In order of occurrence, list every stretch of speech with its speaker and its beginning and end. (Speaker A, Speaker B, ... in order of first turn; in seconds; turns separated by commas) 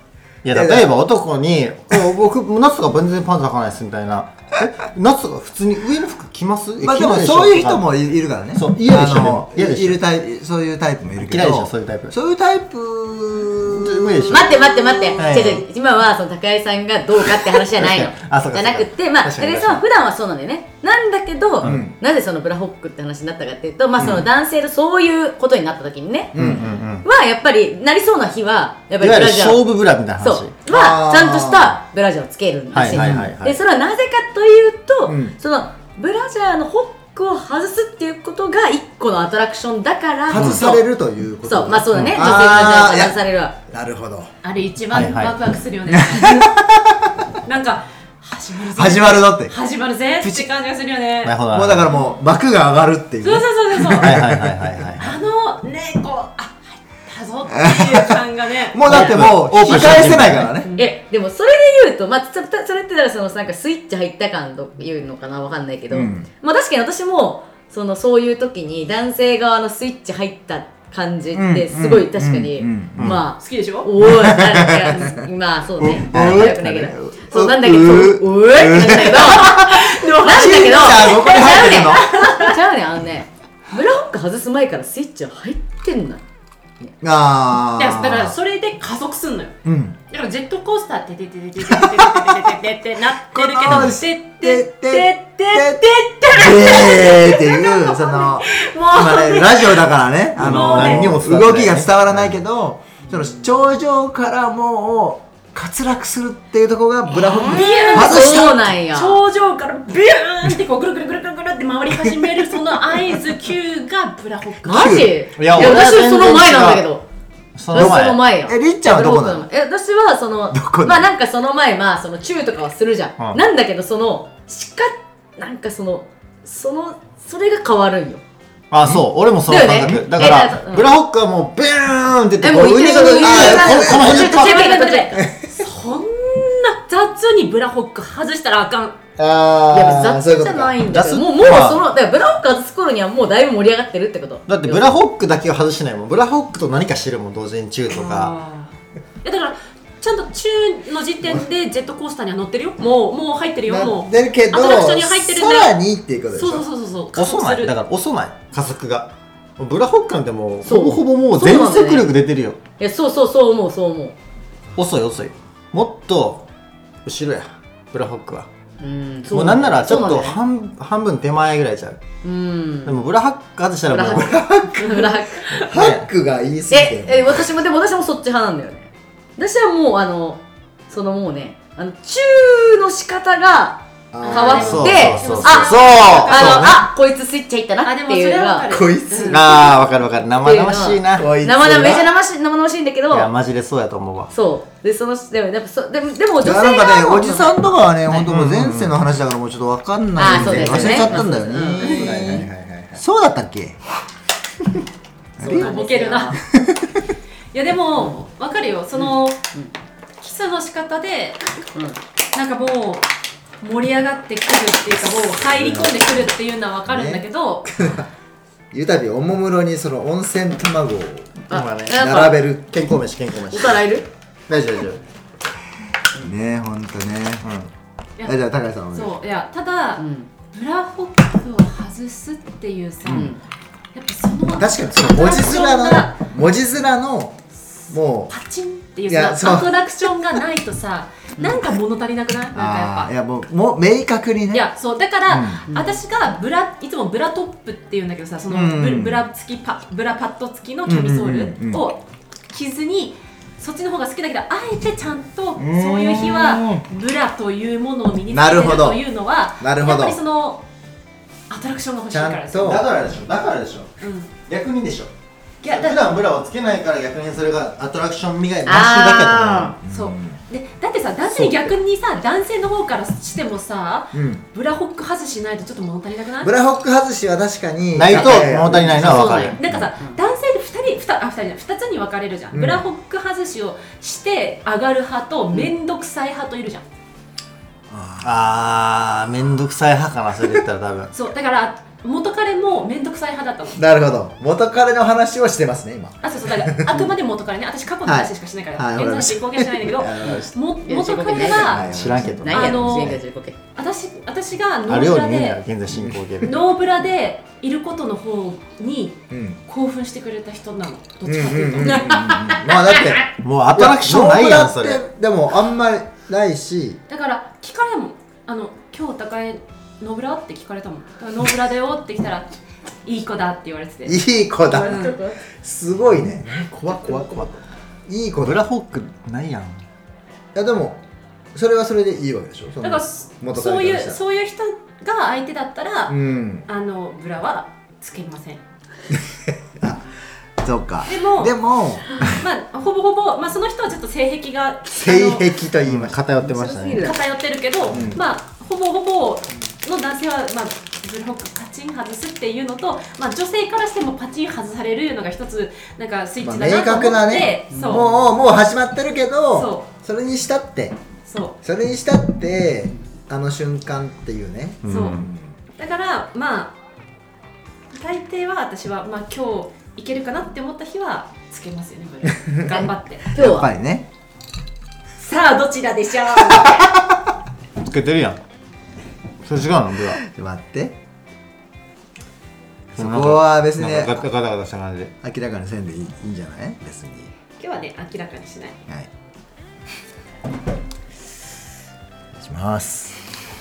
Speaker A: 0.4-7.9, Speaker B: 0.5-0.9, Speaker B: 6.8-15.4, Speaker A: 8.6-10.0, Speaker A: 11.2-12.2, Speaker A: 13.8-14.7, Speaker C: 14.3-29.6, Speaker A: 15.2-15.7, Speaker A: 17.7-19.8, Speaker B: 21.6-21.9, Speaker B: 24.0-24.3, Speaker B: 26.4-26.7, Speaker A: 26.4-27.1, Speaker A: 29.0-30.6, Speaker C: 30.2-40.8, Speaker B: 30.7-31.8, Speaker A: 32.7-33.6, Speaker B: 32.9-33.3, Speaker B: 35.1-35.4, Speaker B: 40.3-44.3, Speaker A: 40.3-40.7, Speaker C: 41.4-43.6, Speaker A: 41.9-42.4, Speaker D: 44.4-46.5, Speaker A: 44.9-45.4, Speaker B: 45.9-47.1, Speaker D: 47.5-51.4, Speaker B: 48.7-49.5, Speaker B: 50.2-50.5, Speaker A: 51.2-51.9, Speaker B: 51.5-54.7, Speaker D: 51.9-52.2, Speaker D: 53.2-54.1, Speaker A: 54.0-55.2, Speaker D: 55.0-61.0, Speaker B: 57.5-58.2, Speaker B: 58.7-60.7, Speaker A: 58.9-60.5, Speaker C: 60.7-86.2, Speaker B: 65.9-66.3, Speaker B: 71.3-73.2, Speaker A: 73.0-73.2, Speaker D: 73.4-73.9, Speaker B: 74.3-75.0, Speaker B: 75.8-82.1, Speaker A: 76.1-76.5, Speaker D: 79.0-82.5, Speaker B: 87.0-88.3, Speaker D: 87.7-89.5, Speaker B: 89.6-90.0, Speaker D: 90.1-101.1, Speaker B: 91.6-92.3, Speaker B: 93.3-108.7, Speaker A: 93.7-94.0, Speaker A: 100.4-102.4, Speaker D: 107.2-115.0, Speaker C: 107.9-109.2, Speaker C: 114.6-117.1, Speaker B: 114.7-115.2, Speaker A: 115.4-116.8, Speaker A: 117.6-118.2, Speaker C: 117.7-128.2, Speaker B: 117.7-119.5, Speaker B: 120.5-121.1, Speaker A: 128.7-134.6, Speaker C: 129.5-130.9, Speaker C: 132.4-135.3, Speaker B: 133.2-134.2, Speaker D: 133.8-139.0, Speaker B: 135.2-135.6, Speaker B: 139.2-140.8, Speaker A: 139.3-140.0, Speaker C: 139.7-145.0, Speaker A: 140.8-141.9, Speaker A: 144.5-148.3, Speaker D: 147.9-148.7, Speaker D: 149.2-155.8, Speaker B: 153.7-156.7, Speaker D: 156.3-157.7, Speaker A: 157.1-162.6, Speaker C: 160.6-162.1, Speaker C: 162.8-164.2, Speaker A: 164.8-166.5, Speaker A: 167.1-168.5, Speaker C: 168.8-170.4, Speaker A: 169.3-172.0, Speaker C: 172.2-173.0, Speaker A: 172.8-174.4, Speaker C: 173.9-175.9, Speaker B: 174.2-177.5, Speaker A: 175.7-176.0, Speaker C: 176.7-188.7, Speaker B: 184.1-185.0, Speaker D: 184.2-186.8, Speaker A: 184.5-186.8, Speaker D: 187.8-189.7, Speaker B: 188.7-189.7, Speaker A: 189.3-191.3, Speaker C: 190.3-193.3, Speaker B: 191.2-192.1, Speaker A: 193.1-194.3, Speaker C: 194.3-197.6, Speaker B: 196.4-203.8, Speaker A: 198.1-199.0, Speaker C: 200.2-202.4, Speaker A: 200.2-203.0, Speaker B: 205.4-205.7, Speaker C: 205.4-206.4, Speaker D: 205.4-206.4, Speaker B: 206.5-207.0, Speaker D: 207.5-209.4, Speaker C: 209.0-209.7, Speaker D: 210.2-211.4, Speaker C: 211.7-212.0, Speaker D: 212.3-213.1, Speaker D: 213.6-217.7, Speaker B: 215.4-216.2, Speaker B: 216.9-218.1, Speaker B: 218.7-222.8, Speaker C: 221.5-222.4, Speaker A: 221.5-222.1, Speaker A: 222.7-223.8, Speaker C: 223.5-224.1, Speaker A: 224.5-225.0, Speaker B: 226.2-227.5, Speaker A: 227.4-227.7, Speaker B: 228.2-229.2, Speaker D: 228.9-233.3, Speaker C: 230.0-230.3, Speaker C: 233.1-233.4, Speaker D: 233.9-236.2, Speaker B: 234.5-237.4, Speaker B: 237.9-238.3, Speaker D: 238.3-243.1, Speaker B: 239.1-239.7, Speaker B: 242.5-244.7, Speaker D: 244.5-260.6, Speaker B: 245.3-245.6, Speaker C: 245.7-246.0, Speaker B: 248.5-249.2, Speaker B: 250.9-251.8, Speaker A: 255.6-256.8, Speaker B: 258.3-259.1, Speaker B: 259.6-260.2, Speaker D: 261.5-262.8, Speaker B: 262.1-262.9, Speaker A: 262.6-263.9, Speaker D: 264.0-264.3, Speaker A: 264.5-265.1, Speaker D: 265.6-266.1, Speaker A: 265.6-269.8, Speaker C: 268.6-269.8, Speaker B: 269.8-270.4, Speaker D: 269.9-276.5, Speaker A: 271.3-271.7, Speaker B: 274.1-274.4, Speaker B: 276.4-279.9, Speaker A: 277.9-279.6, Speaker D: 278.1-286.9, Speaker B: 282.5-282.9, Speaker B: 287.9-288.5, Speaker A: 288.2-291.1, Speaker D: 291.1-293.8, Speaker B: 293.8-297.2, Speaker D: 296.2-301.9, Speaker B: 298.1-300.6, Speaker C: 300.2-303.6, Speaker B: 301.3-303.1, Speaker A: 301.8-302.8, Speaker D: 302.5-303.2, Speaker D: 303.8-305.6, Speaker A: 304.9-306.6, Speaker B: 305.9-306.5, Speaker D: 306.4-313.2, Speaker B: 309.3-309.6, Speaker B: 311.2-317.0, Speaker A: 313.4-315.0, Speaker D: 317.1-322.5, Speaker D: 323.1-325.2, Speaker B: 324.1-328.6, Speaker C: 324.7-325.4, Speaker A: 328.4-329.8, Speaker B: 330.6-331.0, Speaker B: 331.5-334.2, Speaker D: 332.8-338.6, Speaker B: 336.1-336.7, Speaker B: 339.3-340.0, Speaker B: 340.6-342.4, Speaker D: 341.1-341.6, Speaker D: 342.2-345.5, Speaker B: 344.9-346.2, Speaker A: 345.9-347.2, Speaker C: 346.4-347.2, Speaker D: 347.0-358.1, Speaker B: 347.9-348.2, Speaker A: 347.9-348.2, Speaker B: 356.4-361.0, Speaker C: 357.7-358.0, Speaker D: 359.5-359.9, Speaker D: 361.3-361.6, Speaker B: 361.6-365.5, Speaker A: 364.8-365.2, Speaker D: 364.9-365.2, Speaker D: 365.8-366.8, Speaker D: 367.9-373.3, Speaker B: 373.3-374.1, Speaker C: 373.3-373.7, Speaker D: 375.2-376.9, Speaker A: 377.8-378.4, Speaker A: 379.4-380.2, Speaker B: 380.3-381.0, Speaker B: 382.9-384.3, Speaker A: 383.0-385.1, Speaker B: 385.2-387.3, Speaker D: 387.6-388.8, Speaker B: 392.4-393.3